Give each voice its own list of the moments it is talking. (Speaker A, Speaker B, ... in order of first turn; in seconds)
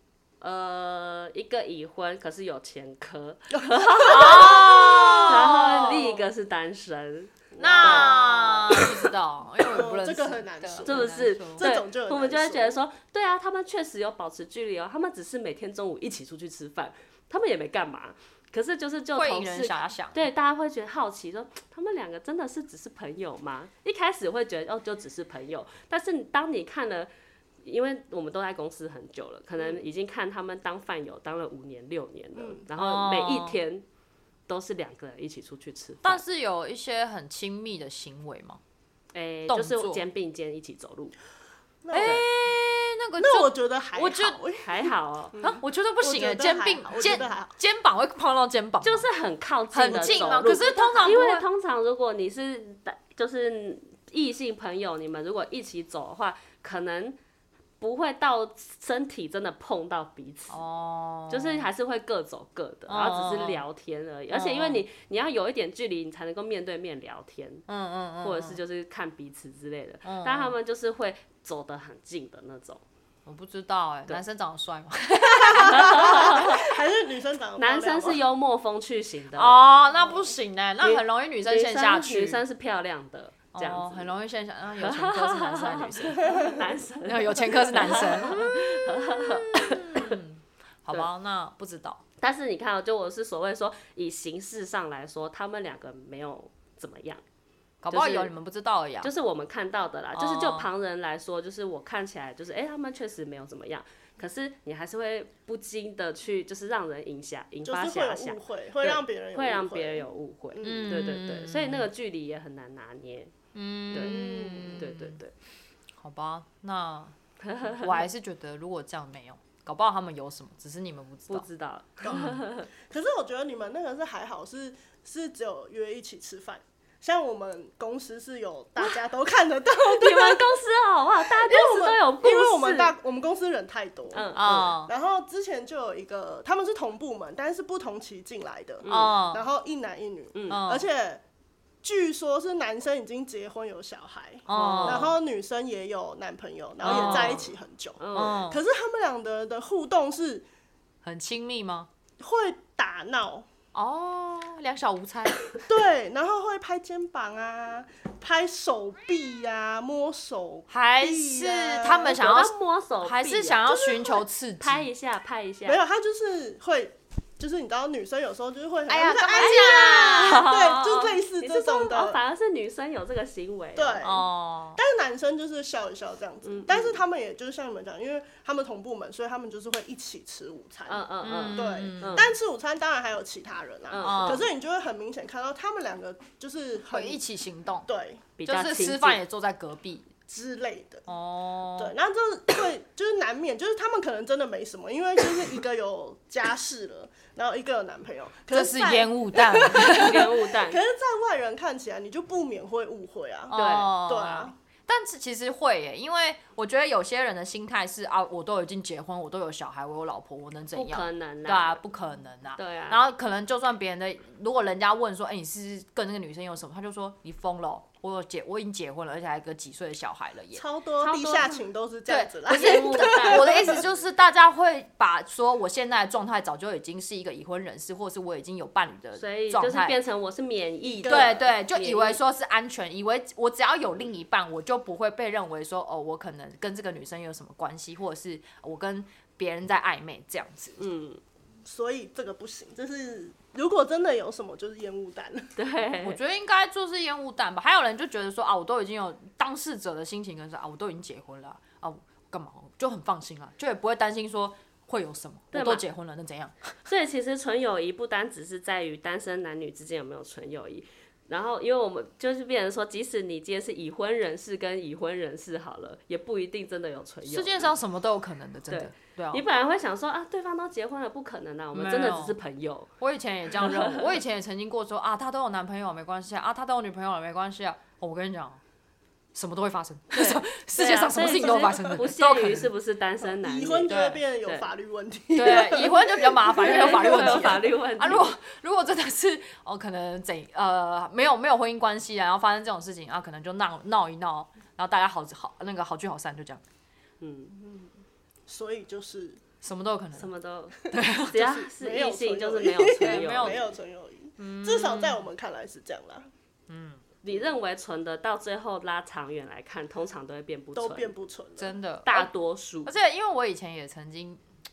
Speaker A: 0.4-8.9, 10.8-27.1, 27.6-33.8, 34.5-36.2, 39.1-41.1, 41.9-42.2, 44.6-45.4, 48.8-57.2, 57.8-60.6, 61.3-67.7, 68.2-72.8, 75.6-76.6, 77.6-79.6, 80.8-84.1, 84.8-90.2, 92.2-97.2, 97.9-98.3, 99.0-113.3, 113.9-115.3, 117.4-118.0, 121.3-122.7, 129.8-132.9, 134.1-134.8, 138.8-139.2, 140.3-140.6, 144.5-145.1, 146.8-148.4, 162.1-163.7, 164.6-165.8, 169.4-174.0, 176.4-177.0, 180.9-182.3, 183.9-184.4, 188.4-189.2, 199.7-200.8, 203.5-203.9, 210.7-211.8, 212.6-213.0, 221.0-221.6, 222.5-223.8, 229.2-232.2, 240.8-241.2, 245.6-246.2, 255.5-255.8, 256.8-267.7, 268.7-272.9, 273.5-274.1, 280.1-284.7, 286.6-288.4, 297.2-297.6, 300.1-303.6, 307.2-311.1, 312.1-312.9
Speaker B: 3.6-5.3, 7.7-8.2, 9.7-12.8, 32.4-32.6, 41.8-42.3, 43.2-47.5, 49.9-50.5, 75.3-78.2, 86.2-86.6, 107.6-111.0, 114.0-114.8, 122.0-130.5, 131.2-141.2, 141.8-150.4, 152.2-153.5, 155.6-162.2, 163.7-164.2, 165.7-172.2, 173.8-187.2, 187.8-188.2, 190.3-191.1, 191.8-204.5, 220.5-223.8, 230.8-231.5, 241.6-245.5, 281.7-281.9, 283.4-287.6, 297.6-297.9, 298.5-299.4, 301.3-306.3, 310.8-311.7
Speaker C: 4.0-6.2, 7.6-11.7, 19.1-20.3, 32.8-33.6, 36.0-38.6, 39.5-40.0, 41.9-44.4, 45.4-49.1, 49.7-51.4, 60.5-61.7, 62.9-63.6, 64.3-64.8, 67.7-68.6, 70.0-70.5, 73.2-76.6, 79.3-82.4, 83.5-86.5, 87.0-92.0, 97.8-99.1, 100.1-100.7, 110.6-111.9, 113.5-115.2, 116.0-117.2, 117.7-121.5, 122.1-122.4, 134.3-134.9, 138.9-139.4, 140.5-140.9, 144.5-145.2, 146.8-147.4, 148.1-148.6, 151.0-151.9, 153.7-155.4, 160.7-164.9, 168.9-170.5, 174.0-174.8, 181.2-182.3, 184.0-184.5, 186.9-187.9, 188.4-190.1, 191.1-191.9, 198.5-200.2, 203.5-220.6, 222.1-230.0, 231.0-240.8, 246.0-256.5, 267.2-269.4, 271.7-272.4, 273.0-278.6, 279.3-282.7, 283.9-284.2, 285.3-296.6, 299.6-300.3, 300.9-301.5, 303.0-303.6, 304.4-305.2, 306.7-307.0, 311.6-312.3, 312.8-314.4